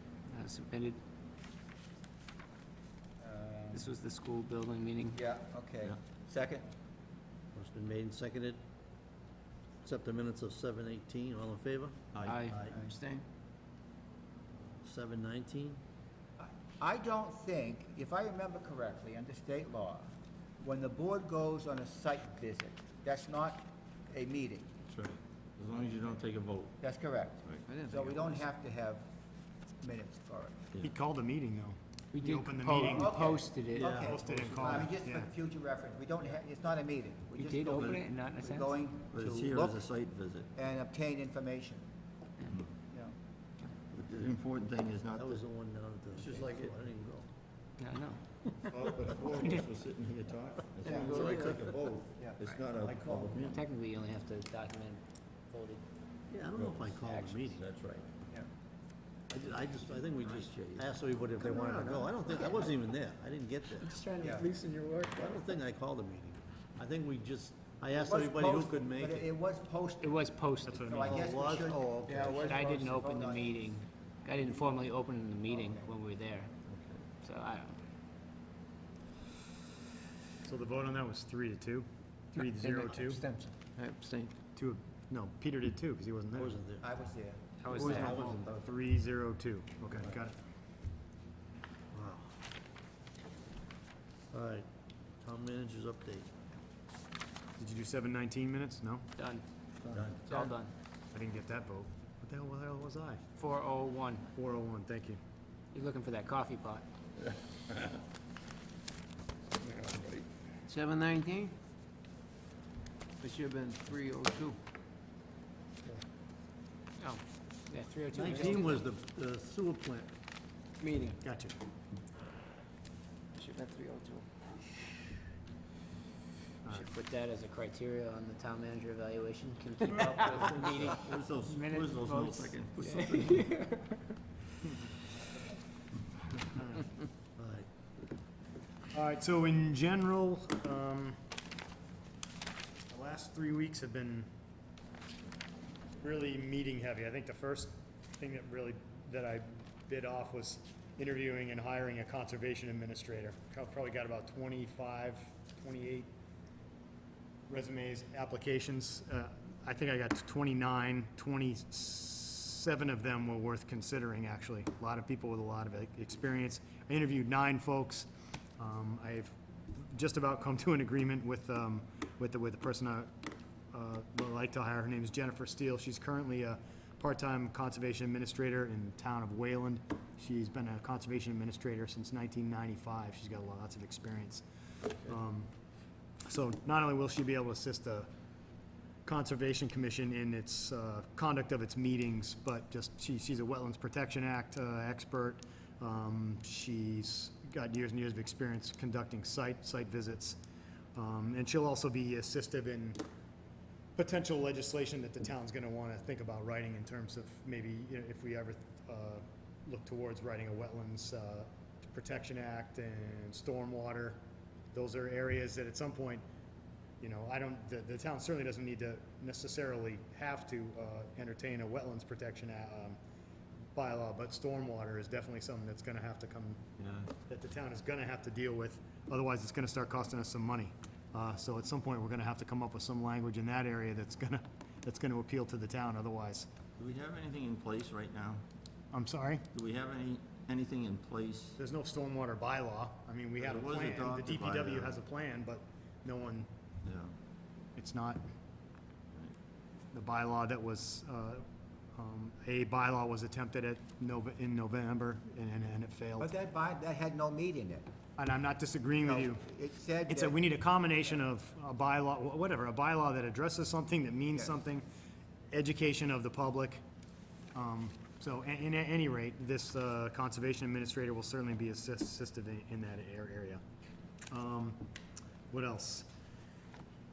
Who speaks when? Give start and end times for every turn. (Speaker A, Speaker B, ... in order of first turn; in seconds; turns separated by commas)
Speaker A: 0.3-1.0, Speaker B: 3.2-3.9, Speaker A: 3.7-5.2, Speaker B: 5.2-6.7, Speaker C: 7.5-8.6, Speaker C: 9.8-12.8, Speaker D: 12.1-12.4, Speaker A: 12.2-12.6, Speaker E: 12.7-13.2, Speaker C: 14.8-15.8, Speaker B: 16.4-24.7, Speaker D: 24.9-26.8, Speaker B: 26.8-29.1, Speaker D: 27.4-27.7, Speaker E: 27.7-28.3, Speaker B: 29.8-30.6, Speaker F: 30.8-33.2, Speaker A: 32.1-34.0, Speaker B: 32.8-39.8, Speaker C: 33.8-34.7, Speaker F: 33.8-35.3, Speaker A: 37.4-38.7, Speaker D: 37.7-38.0, Speaker D: 39.1-40.5, Speaker B: 40.5-41.8, Speaker D: 42.5-42.7, Speaker B: 42.9-43.1, Speaker D: 43.9-45.4, Speaker C: 45.1-47.3, Speaker D: 46.2-46.7, Speaker A: 47.8-48.7, Speaker D: 48.7-53.6, Speaker B: 50.8-51.4, Speaker A: 50.9-51.5, Speaker E: 51.1-51.5, Speaker B: 52.2-53.4, Speaker A: 53.5-55.8, Speaker C: 56.3-57.6, Speaker D: 56.5-58.1, Speaker C: 59.3-64.0, Speaker D: 60.3-60.9, Speaker B: 61.5-62.1, Speaker A: 63.8-65.3, Speaker C: 65.1-69.2, Speaker B: 67.9-73.6, Speaker A: 70.0-71.2, Speaker F: 70.6-71.2, Speaker C: 71.0-72.2, Speaker A: 72.1-76.5, Speaker B: 75.5-75.9, Speaker D: 76.7-77.0, Speaker A: 77.2-77.8, Speaker F: 80.4-83.2, Speaker A: 82.4-83.5, Speaker E: 83.4-84.3, Speaker F: 84.6-86.5, Speaker C: 86.3-86.8, Speaker B: 86.8-87.4, Speaker A: 87.6-88.5, Speaker F: 87.7-90.4, Speaker C: 87.7-88.7, Speaker C: 89.9-90.2, Speaker C: 91.9-92.3, Speaker C: 94.3-94.7, Speaker C: 95.2-96.3, Speaker F: 97.6-99.1, Speaker A: 99.2-99.4, Speaker C: 99.8-100.1, Speaker D: 99.9-100.5, Speaker A: 100.3-100.7, Speaker F: 101.1-103.2, Speaker A: 103.4-104.2, Speaker F: 104.3-105.2, Speaker A: 105.7-106.8, Speaker E: 110.7-111.5, Speaker E: 113.2-114.6, Speaker A: 117.0-118.8, Speaker C: 118.1-120.1, Speaker E: 120.8-121.2, Speaker F: 121.2-121.6, Speaker E: 123.4-124.3, Speaker A: 126.7-134.0, Speaker D: 130.3-133.6, Speaker F: 136.5-136.9, Speaker C: 137.4-137.7, Speaker F: 138.9-141.2, Speaker F: 142.9-144.3, Speaker F: 146.0-156.1, Speaker F: 157.5-173.1, Speaker F: 173.7-184.4, Speaker F: 185.1-185.5, Speaker F: 186.2-188.1, Speaker F: 189.1-200.4, Speaker F: 200.9-203.0, Speaker F: 204.0-214.2, Speaker F: 214.7-216.2, Speaker F: 217.0-223.0, Speaker F: 223.8-226.6, Speaker D: 226.8-227.1, Speaker F: 227.3-236.5, Speaker D: 236.8-238.4, Speaker F: 238.9-239.4, Speaker D: 239.5-241.6, Speaker F: 241.6-246.5, Speaker D: 243.4-245.0, Speaker D: 246.8-247.1, Speaker F: 247.8-248.2, Speaker F: 249.9-251.4, Speaker F: 251.9-256.3, Speaker B: 256.2-257.9, Speaker F: 258.2-259.5, Speaker B: 259.0-260.4, Speaker F: 260.1-264.9, Speaker F: 265.5-266.8, Speaker F: 267.5-273.6, Speaker F: 274.3-274.8, Speaker F: 275.5-276.1